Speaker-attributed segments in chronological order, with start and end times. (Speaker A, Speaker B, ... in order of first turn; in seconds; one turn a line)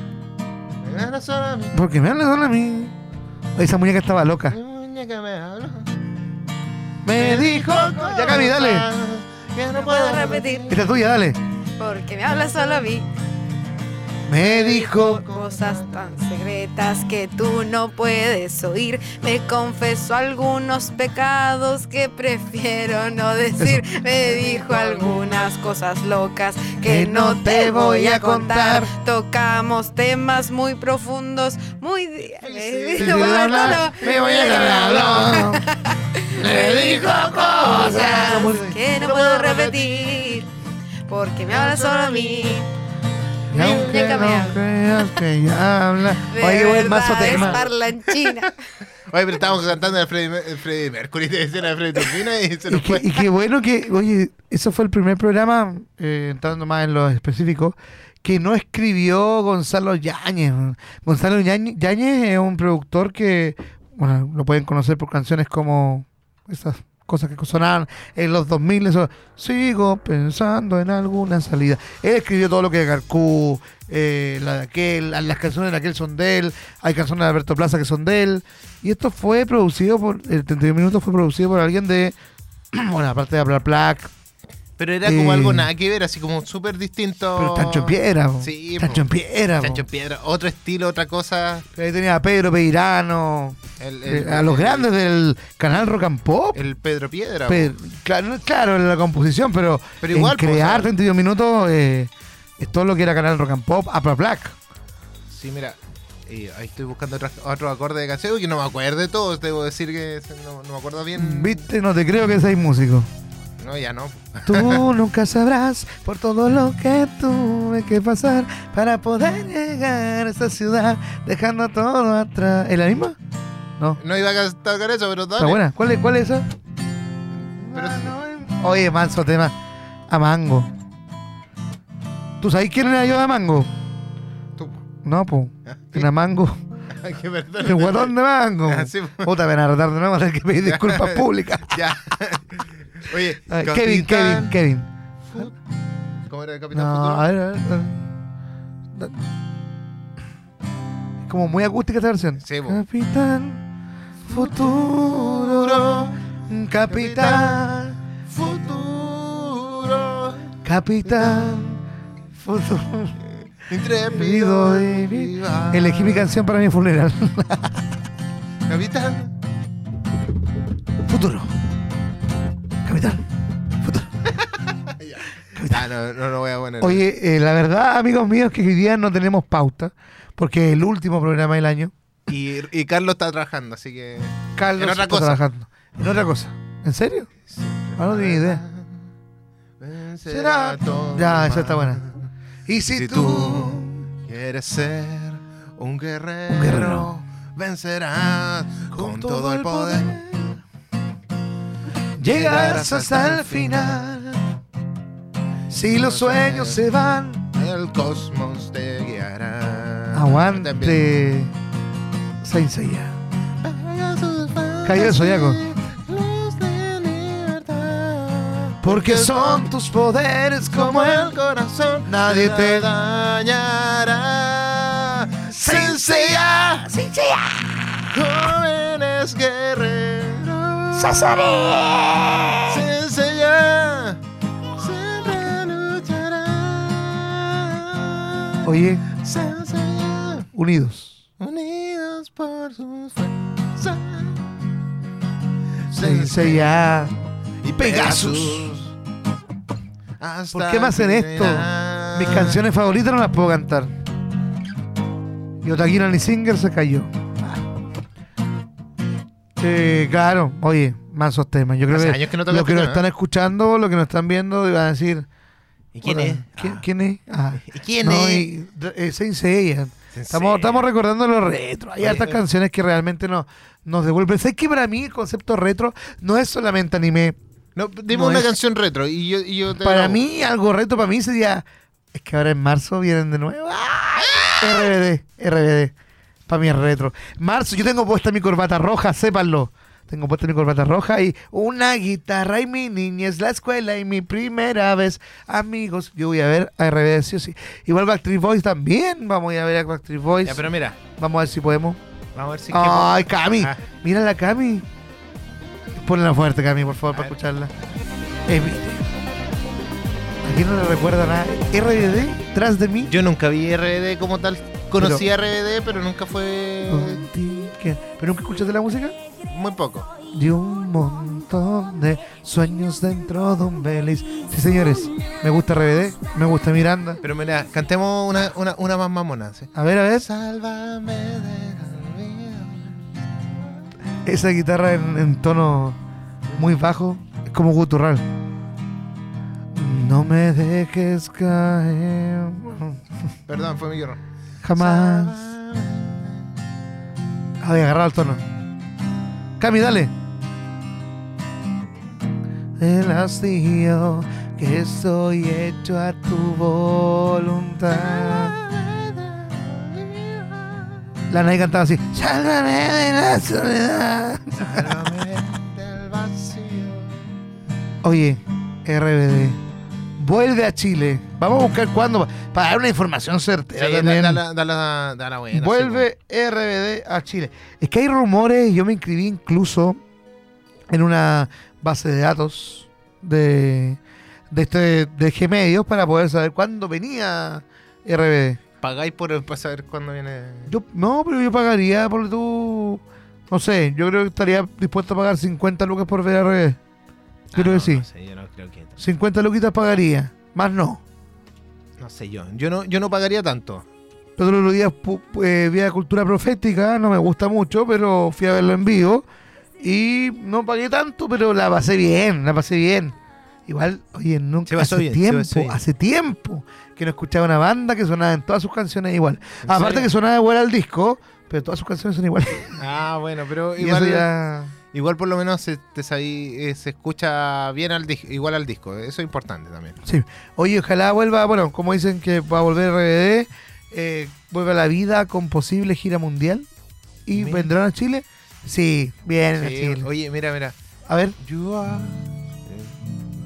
Speaker A: 0.8-1.9
Speaker B: 1.7-3.0
Speaker B: 3.6-4.6
Speaker A: 4.5-5.9
Speaker B: 7.0-8.9
Speaker A: 7.1-10.8
Speaker C: 9.7-10.7
Speaker B: 10.7-11.4
Speaker C: 11.8-13.1
Speaker B: 14.3-15.2
Speaker A: 14.3-16.2
Speaker C: 15.0-40.5
Speaker B: 23.6-23.9
Speaker A: 24.2-25.6
Speaker B: 26.8-28.9
Speaker A: 32.2-35.5
Speaker B: 33.0-35.7
Speaker B: 36.4-38.8
Speaker A: 37.1-38.1
Speaker A: 38.9-40.4
Speaker C: 41.1-42.7
Speaker A: 41.5-42.6
Speaker B: 43.5-47.6
Speaker A: 43.5-44.4
Speaker C: 43.5-44.6
Speaker C: 46.3-48.6
Speaker A: 47.2-48.4
Speaker A: 49.1-53.2
Speaker B: 52.7-82.2
Speaker B: 82.7-84.1
Speaker A: 84.8-89.1
Speaker B: 85.0-85.7
Speaker B: 87.4-89.8
Speaker A: 89.6-91.7
Speaker B: 91.8-96.6
Speaker A: 93.8-94.9
Speaker A: 96.5-97.8
Speaker B: 97.5-104.6
Speaker A: 100.0-100.9
Speaker A: 105.3-111.7
Speaker B: 111.2-113.1
Speaker A: 113.6-114.8
Speaker B: 114.5-123.2
Speaker A: 124.0-125.6
Speaker B: 125.4-126.5
Speaker B: 127.6-129.6
Speaker A: 127.7-128.2
Speaker B: 130.1-130.7
Speaker B: 132.4-133.7
Speaker A: 134.6-134.8
Speaker B: 135.0-136.6
Speaker A: 135.7-136.1
Speaker A: 136.9-139.3
Speaker B: 137.6-141.8
Speaker A: 140.7-144.6
Speaker B: 143.5-144.9
Speaker A: 145.2-145.6
Speaker A: 146.3-147.3
Speaker B: 146.7-148.1
Speaker B: 151.2-153.6
Speaker A: 152.4-152.8
Speaker B: 154.3-158.0
Speaker A: 154.3-156.2
Speaker A: 156.9-157.7
Speaker A: 158.3-160.5
Speaker B: 160.6-161.8
Speaker A: 161.1-161.5
Speaker B: 162.4-163.2
Speaker A: 163.7-166.3
Speaker B: 164.1-167.8
Speaker A: 168.7-169.3
Speaker B: 171.1-171.5
Speaker B: 172.8-173.2
Speaker B: 173.8-174.2
Speaker A: 174.8-177.0
Speaker B: 175.6-175.8
Speaker B: 176.8-181.9
Speaker A: 182.3-185.4
Speaker B: 184.6-187.3
Speaker A: 187.5-189.0
Speaker B: 188.0-188.6
Speaker A: 189.8-192.3
Speaker B: 190.3-192.0
Speaker B: 192.7-194.1
Speaker A: 192.9-200.2
Speaker B: 196.5-197.2
Speaker B: 198.9-200.6
Speaker B: 202.2-204.5
Speaker A: 202.2-204.0
Speaker B: 205.7-207.4
Speaker A: 205.9-206.9
Speaker A: 207.5-211.1
Speaker B: 210.1-211.5
Speaker B: 212.4-213.2
Speaker A: 213.6-219.7
Speaker B: 214.8-215.6
Speaker B: 218.8-221.3
Speaker A: 220.7-226.9
Speaker B: 222.1-222.9
Speaker B: 225.5-227.6
Speaker A: 228.1-231.6
Speaker B: 230.9-232.8
Speaker A: 232.7-234.2
Speaker A: 234.8-240.5
Speaker B: 238.6-239.1
Speaker B: 240.5-241.2
Speaker A: 241.4-244.6
Speaker A: 245.9-246.7
Speaker B: 245.9-247.1
Speaker A: 247.6-248.8
Speaker B: 247.8-248.9
Speaker A: 250.2-252.6
Speaker B: 250.5-253.9
Speaker B: 255.6-257.6
Speaker B: 259.6-265.3
Speaker A: 261.9-263.1
Speaker A: 265.9-266.8
Speaker B: 266.0-277.4
Speaker A: 267.6-268.5
Speaker A: 270.1-270.9
Speaker A: 272.0-272.4
Speaker A: 277.8-280.2
Speaker B: 278.1-278.6
Speaker B: 279.8-285.9
Speaker A: 284.3-284.9
Speaker B: 286.5-300.6
Speaker A: 300.4-301.0
Speaker B: 301.1-302.0
Speaker A: 302.4-303.8
Speaker B: 302.7-304.9
Speaker B: 306.0-307.7
Speaker A: 307.1-307.4
Speaker B: 308.5-309.1
Speaker B: 310.4-313.1
Speaker A: 313.0-317.3
Speaker B: 315.0-315.2
Speaker B: 316.9-319.1
Speaker A: 319.5-320.1
Speaker B: 320.3-327.2
Speaker A: 327.2-333.0
Speaker B: 329.8-330.3
Speaker B: 334.2-336.0
Speaker B: 336.6-338.2
Speaker B: 339.8-343.0
Speaker A: 343.5-344.2
Speaker B: 344.6-345.4
Speaker A: 344.8-346.5
Speaker B: 347.6-348.4
Speaker B: 349.6-350.1
Speaker B: 352.8-358.6
Speaker A: 357.9-361.1
Speaker B: 361.3-364.9
Speaker A: 364.6-367.3
Speaker B: 368.0-369.6
Speaker B: 370.2-374.4
Speaker A: 373.8-376.1
Speaker B: 375.5-380.0
Speaker B: 380.9-384.0
Speaker B: 384.5-388.6
Speaker A: 388.8-390.7
Speaker B: 390.7-396.8
Speaker A: 397.5-399.0
Speaker B: 397.6-398.1
Speaker B: 399.0-401.0
Speaker A: 402.0-403.9
Speaker B: 404.4-409.2
Speaker B: 409.8-422.8
Speaker A: 414.7-415.8
Speaker A: 419.6-420.1
Speaker A: 422.8-424.3
Speaker B: 423.8-424.7
Speaker A: 424.9-430.0
Speaker B: 430.0-436.7
Speaker B: 437.3-440.1
Speaker A: 437.3-437.7
Speaker A: 439.6-440.8
Speaker B: 441.1-441.4
Speaker A: 441.4-443.0